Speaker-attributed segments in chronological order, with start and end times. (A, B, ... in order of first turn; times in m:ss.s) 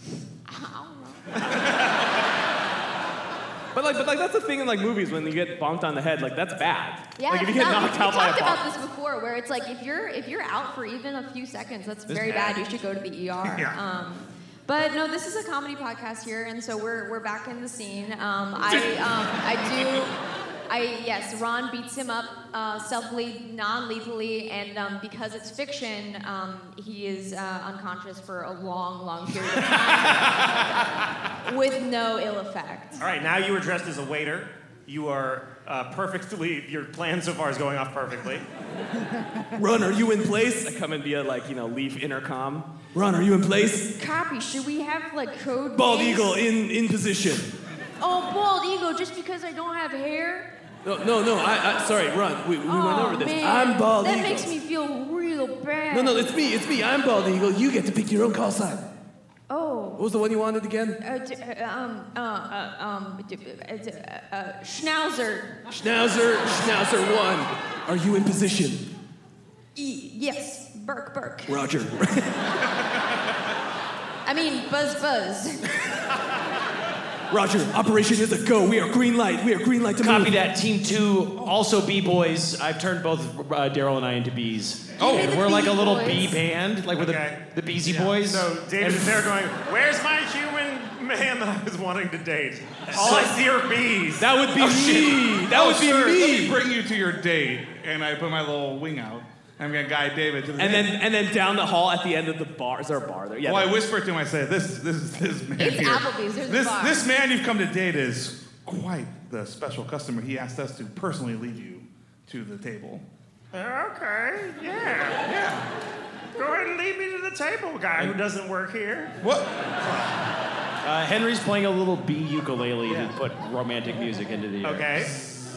0:00.5-0:01.2 A
0:03.7-0:08.6 B
0:07.2-0:20.1 A
0:12.1-0:12.4 C
0:12.2-0:12.6 B
0:13.4-0:13.8 D
0:20.7-0:30.6 A
0:31.4-0:33.0 A
0:33.0-0:38.4 E
0:39.6-0:43.9 B
0:44.0-0:46.4 A
0:45.7-0:47.5 B
0:48.0-0:50.5 A
0:50.8-0:54.5 B
0:52.6-0:56.3 A
0:55.9-0:58.8 B
0:59.5-1:00.0 A
1:00.0-1:01.0 B
1:01.0-1:05.6 A
1:05.7-1:08.8 B
1:09.7-1:11.6 A
1:11.5-1:12.3 B
1:14.2-1:15.8 A
1:17.3-1:20.4 B
1:20.0-1:29.2 C
1:25.0-1:26.4 A
1:25.0-1:25.3 D
1:27.0-1:34.3 E
1:30.0-1:30.5 F
1:32.9-1:33.3 B
1:32.9-1:33.3 C
1:34.2-1:36.6 B
1:34.6-1:41.0 D
1:40.6-1:43.8 B
1:43.4-1:53.0 D
1:45.6-1:47.1 A
1:53.5-1:55.2 F
1:55.2-1:55.6 D
1:56.3-1:59.1 F
1:59.2-2:00.1 D
2:00.8-2:04.9 C
2:04.6-2:05.3 E